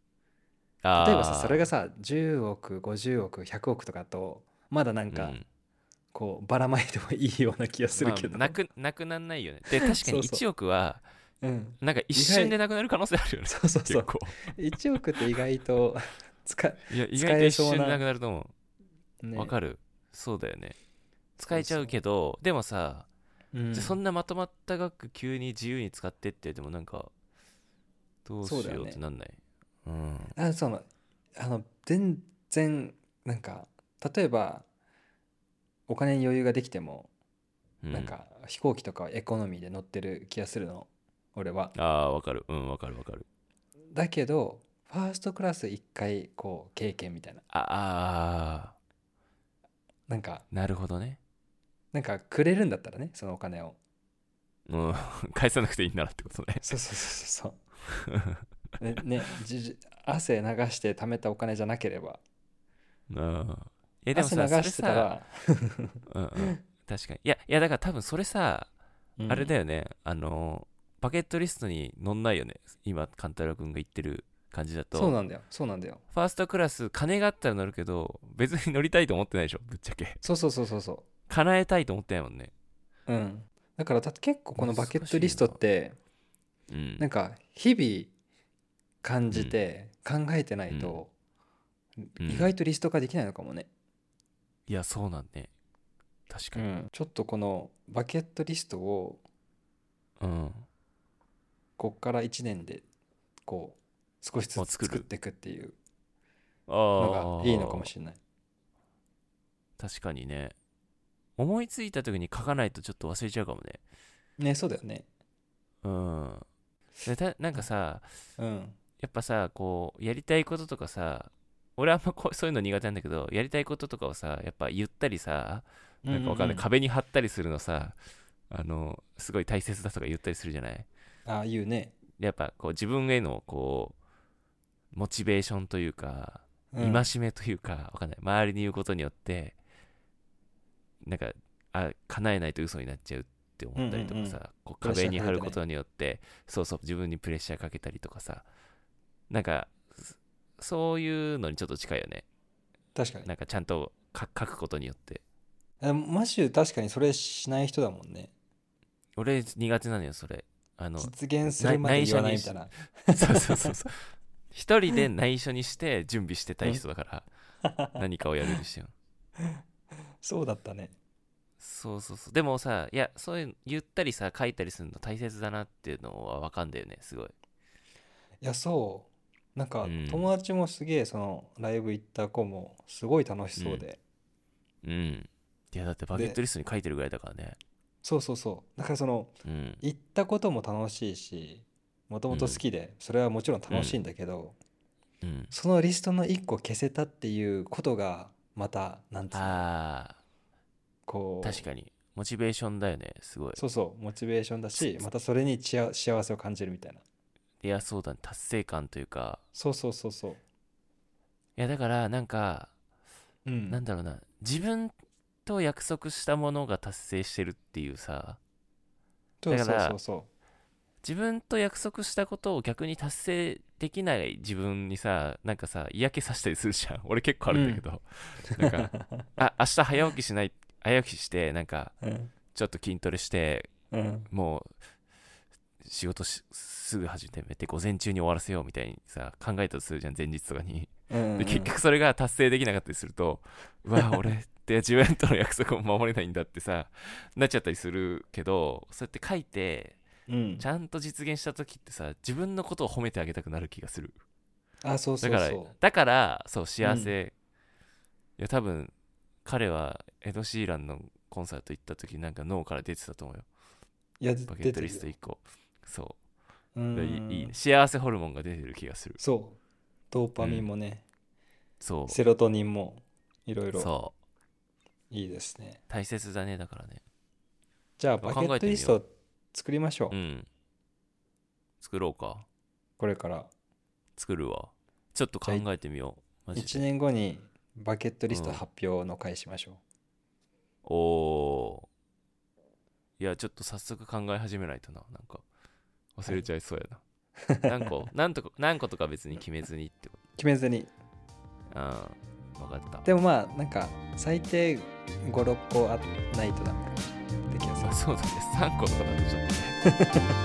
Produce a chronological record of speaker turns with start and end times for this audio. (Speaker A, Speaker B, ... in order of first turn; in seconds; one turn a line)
Speaker A: 0.8-1.7
Speaker B: 0.9-5.4
Speaker A: 5.1-5.4
Speaker B: 6.1-8.6
Speaker A: 7.9-11.0
Speaker B: 10.0-10.4
Speaker B: 11.4-12.5
Speaker A: 11.8-14.9
Speaker B: 13.4-18.0
Speaker A: 16.9-18.5
Speaker B: 19.2-19.5
Speaker A: 19.3-20.8
Speaker A: 21.4-23.1
Speaker B: 21.5-21.9
Speaker B: 23.5-24.0
Speaker A: 23.7-27.1
Speaker A: 28.2-30.3
Speaker B: 28.4-29.0
Speaker B: 30.4-30.8
Speaker B: 31.4-34.6
Speaker B: 35.9-37.1
Speaker A: 37.8-38.1
Speaker B: 37.9-41.7
Speaker A: 41.7-43.2
Speaker B: 43.9-47.4
Speaker A: 47.5-48.8
Speaker B: 50.1-50.5
Speaker A: 50.5-51.2
Speaker B: 51.9-53.8
Speaker A: 54.7-56.8
Speaker B: 56.6-57.6
Speaker A: 57.9-58.4
Speaker B: 58.8-62.2
Speaker A: 63.1-65.1
Speaker B: 64.1-66.5
Speaker A: 66.1-68.7
Speaker B: 69.2-69.5
Speaker A: 69.3-75.2
Speaker B: 74.9-76.0
Speaker A: 76.1-80.2
Speaker B: 80.2-81.0
Speaker A: 81.3-82.5
Speaker B: 83.1-86.0
Speaker A: 84.6-85.6
Speaker A: 86.7-87.0
Speaker B: 87.0-88.1
Speaker B: 89.0-91.1
Speaker A: 89.3-89.6
Speaker A: 90.7-91.0
Speaker B: 92.1-93.7
Speaker A: 92.2-92.5
Speaker A: 94.7-95.5
Speaker A: 96.3-96.6
Speaker B: 96.5-99.2
Speaker A: 100.2-100.7
Speaker B: 101.8-102.8
Speaker B: 103.5-105.8
Speaker A: 104.5-105.1
Speaker A: 106.7-107.9
Speaker B: 107.0-108.2
Speaker A: 109.8-110.5
Speaker A: 111.4-113.8
Speaker B: 114.4-115.0
Speaker A: 115.8-116.5
Speaker A: 117.0-118.2
Speaker B: 118.4-118.8
Speaker A: 119.0-128.0
Speaker B: 126.0-126.7
Speaker A: 128.5-130.9
Speaker B: 131.2-132.0
Speaker A: 132.2-134.0
Speaker A: 134.9-139.6
Speaker B: 136.7-137.1
Speaker A: 141.0-148.5
Speaker B: 143.8-145.6
Speaker A: 149.3-152.2
Speaker B: 152.9-153.3
Speaker A: 153.2-155.2
Speaker B: 155.8-158.3
Speaker A: 159.2-167.3
Speaker B: 161.0-163.7
Speaker B: 167.6-168.0
Speaker A: 167.9-168.9
Speaker B: 170.2-170.9
Speaker A: 171.6-177.3
Speaker B: 178.4-184.0
Speaker A: 179.8-180.3
Speaker A: 183.6-183.8
Speaker A: 184.8-187.6
Speaker B: 186.1-186.4
Speaker B: 188.0-194.6
Speaker A: 189.4-189.8
Speaker A: 192.3-192.6
Speaker A: 193.7-194.0
Speaker A: 195.2-195.5
Speaker B: 195.5-199.6
Speaker A: 199.3-200.2
Speaker B: 201.1-201.7
Speaker A: 201.4-203.6
Speaker B: 203.6-207.0
Speaker A: 204.8-205.1
Speaker A: 207.6-209.4
Speaker B: 209.5-210.4
Speaker A: 211.6-212.7
Speaker B: 213.4-213.8
Speaker A: 213.7-214.9
Speaker A: 215.4-218.4
Speaker B: 219.4-220.3
Speaker A: 219.5-220.0
Speaker A: 221.0-231.9
Speaker B: 227.5-227.8
Speaker B: 228.6-229.3
Speaker B: 232.0-232.3
Speaker A: 232.5-233.7
Speaker B: 233.9-234.3
Speaker A: 234.3-234.7
Speaker A: 235.8-250.0
Speaker B: 241.1-241.7
Speaker B: 243.9-244.3
Speaker B: 250.3-250.7
Speaker A: 250.6-254.2
Speaker B: 254.8-255.7
Speaker A: 255.2-257.3
Speaker B: 256.8-257.1
Speaker A: 258.4-258.9
Speaker A: 259.4-263.5
Speaker B: 264.2-265.1
Speaker A: 264.5-266.2
Speaker B: 266.7-267.5
Speaker A: 266.9-269.2
Speaker B: 269.2-269.6
Speaker B: 270.1-271.0
Speaker A: 270.4-270.7
Speaker A: 271.8-272.2
Speaker B: 272.1-273.9
Speaker A: 273.7-274.1
Speaker B: 275.1-275.8
Speaker A: 275.9-277.0
Speaker B: 278.0-280.1
Speaker A: 278.2-279.0
Speaker A: 280.1-280.5
Speaker A: 281.8-282.4
Speaker B: 283.0-283.5
Speaker A: 284.2-286.9
Speaker B: 286.5-289.8
Speaker A: 288.3-288.6
Speaker A: 290.8-291.9
Speaker A: 293.2-295.4
Speaker A: 296.2-297.0
Speaker B: 297.5-297.9
Speaker A: 297.6-300.2
Speaker B: 300.4-300.9
Speaker A: 301.7-303.1
Speaker B: 303.0-308.3
Speaker A: 307.8-309.8
Speaker B: 309.9-310.2